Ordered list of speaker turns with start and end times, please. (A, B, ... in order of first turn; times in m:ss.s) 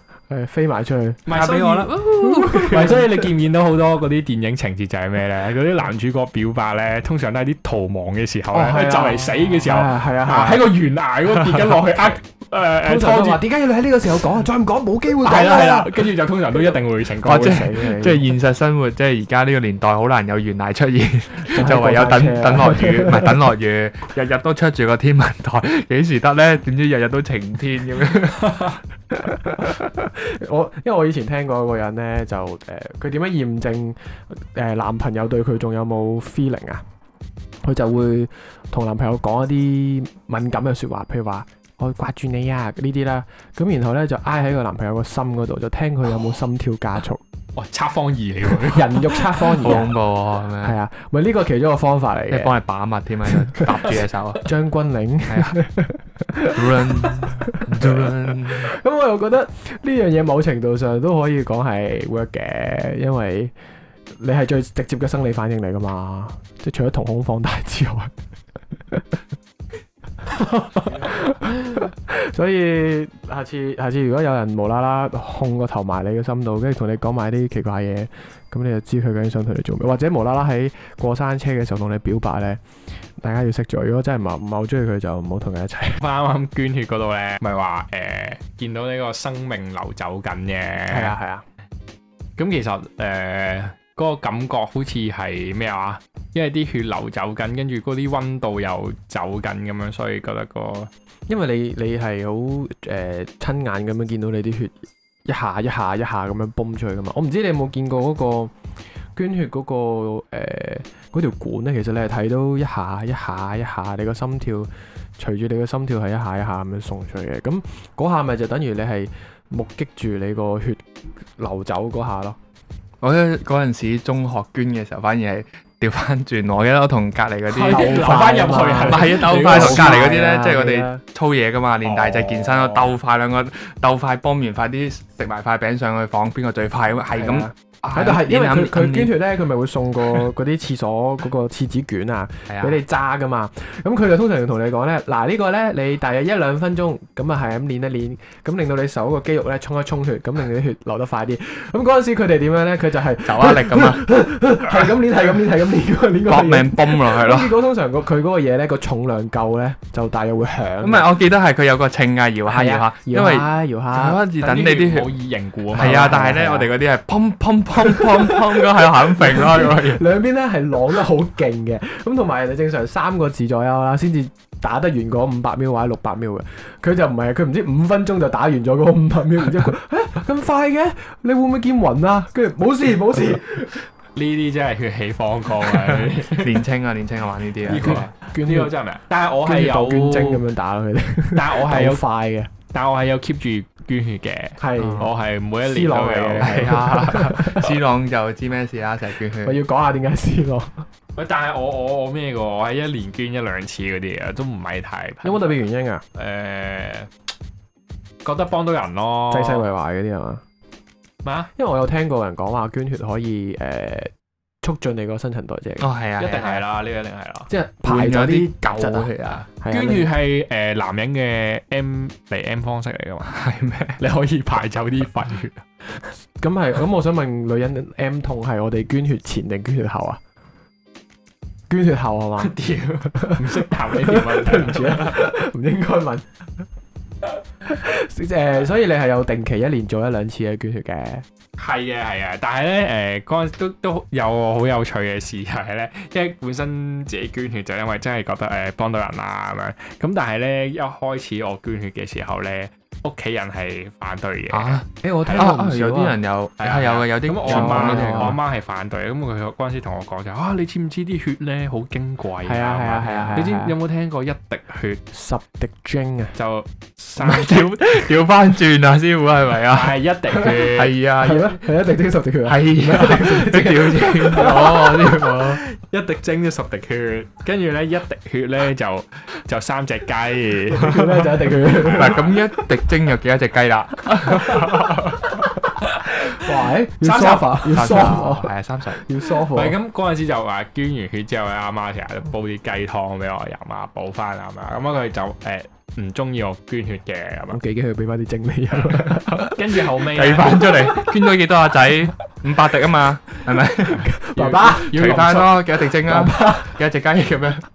0:00.3-0:01.3 A
0:01.2-0:13.4 B
0:01.3-0:03.0 C
0:02.1-0:03.2 A
0:08.5-0:10.7 A
0:12.8-0:16.1 A
0:15.2-0:17.7 B
0:17.2-0:18.2 A
0:17.2-0:28.8 C
0:21.5-0:23.3 A
0:29.1-0:36.8 A
0:37.6-0:47.2 A
0:47.6-0:49.8 B
0:48.4-0:50.0 A
0:49.6-0:50.8 C
0:50.6-0:52.5 A
0:52.3-0:54.4 C
0:53.5-1:03.5 A
0:55.3-0:55.6 C
0:56.5-0:58.7 C
1:04.1-1:08.1 A
1:10.9-1:22.6 A
1:23.2-1:26.0 A
1:26.0-1:31.1 B
1:30.9-1:31.4 A
1:32.4-1:40.9 B
1:41.3-1:48.5 A
1:49.1-2:02.4 A
2:03.0-2:08.2 C
2:07.5-2:10.1 B
2:07.6-2:11.0 A
2:08.8-2:19.1 C
2:11.8-2:12.9 B
2:17.1-2:41.1 A
2:22.5-2:22.8 C
2:33.2-2:34.0 C
2:36.3-2:37.6 C
2:40.8-2:45.2 C
2:42.5-2:44.2 A
2:44.4-2:46.3 B
2:45.7-2:50.0 C
2:45.8-2:46.7 A
2:47.8-3:03.9 A
3:04.1-3:06.6 B
3:05.7-3:08.1 C
3:07.6-3:10.4 B
3:07.7-3:08.8 A
3:09.4-3:12.5 A
3:11.3-3:12.0 B
3:12.7-3:17.6 B
3:14.6-3:17.8 A
3:14.8-3:15.1 C
3:16.4-3:19.6 C
3:19.4-3:20.9 A
3:21.2-3:25.5 B
3:25.2-3:26.0 A
3:26.1-3:27.1 B
3:28.2-3:29.6 B
3:29.3-3:30.4 A
3:31.2-3:31.5 B
3:31.6-3:35.9 A
3:35.8-3:36.6 C
3:36.2-3:37.5 B
3:37.5-3:40.1 A
3:37.8-3:39.5 C
3:39.7-3:43.3 B
3:43.2-3:44.0 C
3:44.0-3:46.1 B
3:46.4-3:50.2 A
3:51.7-3:52.5 A
3:52.4-3:55.3 B
3:53.1-3:56.3 A
3:57.6-4:01.2 A
4:01.6-4:15.5 B
4:14.5-4:18.4 C
4:15.0-4:16.2 A
4:16.6-4:25.0 B
4:17.4-4:18.4 A
4:22.4-4:23.8 A
4:25.1-4:26.4 A
4:26.3-4:27.8 B
4:27.2-4:31.6 C
4:29.7-4:31.0 B
4:31.2-4:35.2 A
4:32.4-4:35.6 C
4:34.3-4:42.9 B
4:40.8-4:42.3 A
4:41.8-4:45.3 C
4:44.2-4:48.1 B
4:46.2-4:49.8 A
4:47.6-4:49.0 C
4:49.5-4:57.6 B
4:57.5-4:59.8 A
4:59.0-5:01.2 B
5:00.1-5:04.1 C
5:03.8-5:06.8 A
5:04.3-5:05.6 B
5:04.7-5:07.6 C